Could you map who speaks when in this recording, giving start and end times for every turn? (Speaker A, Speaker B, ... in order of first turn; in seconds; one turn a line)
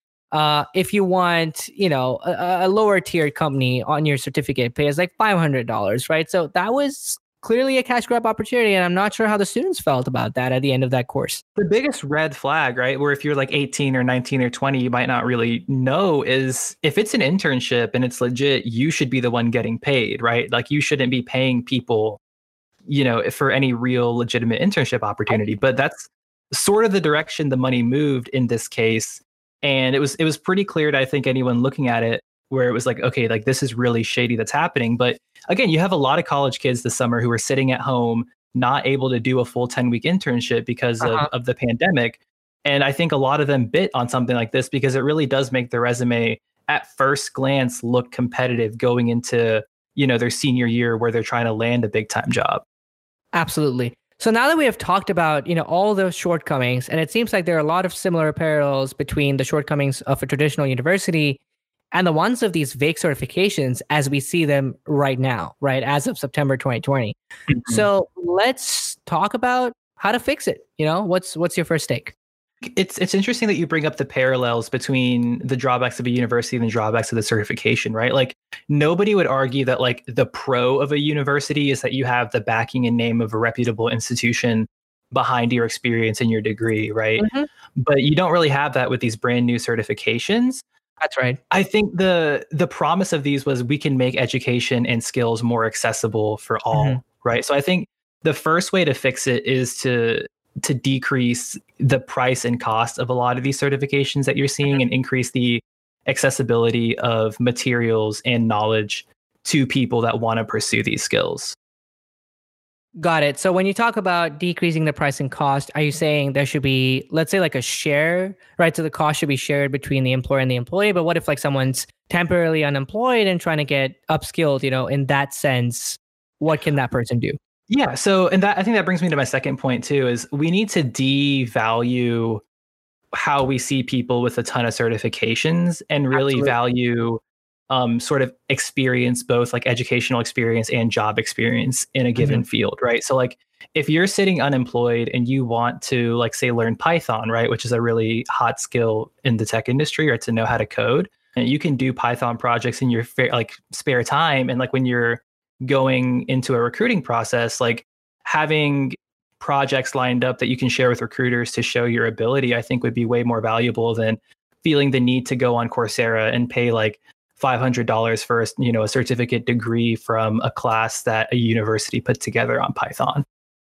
Speaker A: 0.3-11.4
Speaker B: 11.6-22.2
Speaker B: 22.9-52.6
Speaker A: 41.0-41.3
Speaker A: 53.3-61.4
Speaker A: 61.9-72.1
Speaker B: 67.5-67.9
Speaker B: 72.6-90.6
Speaker A: 87.2-87.5
Speaker A: 91.0-91.4
Speaker B: 91.5-111.6
Speaker A: 96.7-97.0
Speaker A: 113.0-127.4
Speaker B: 127.7-132.4
Speaker B: 133.1-173.2
Speaker A: 136.1-136.5
Speaker A: 142.2-142.4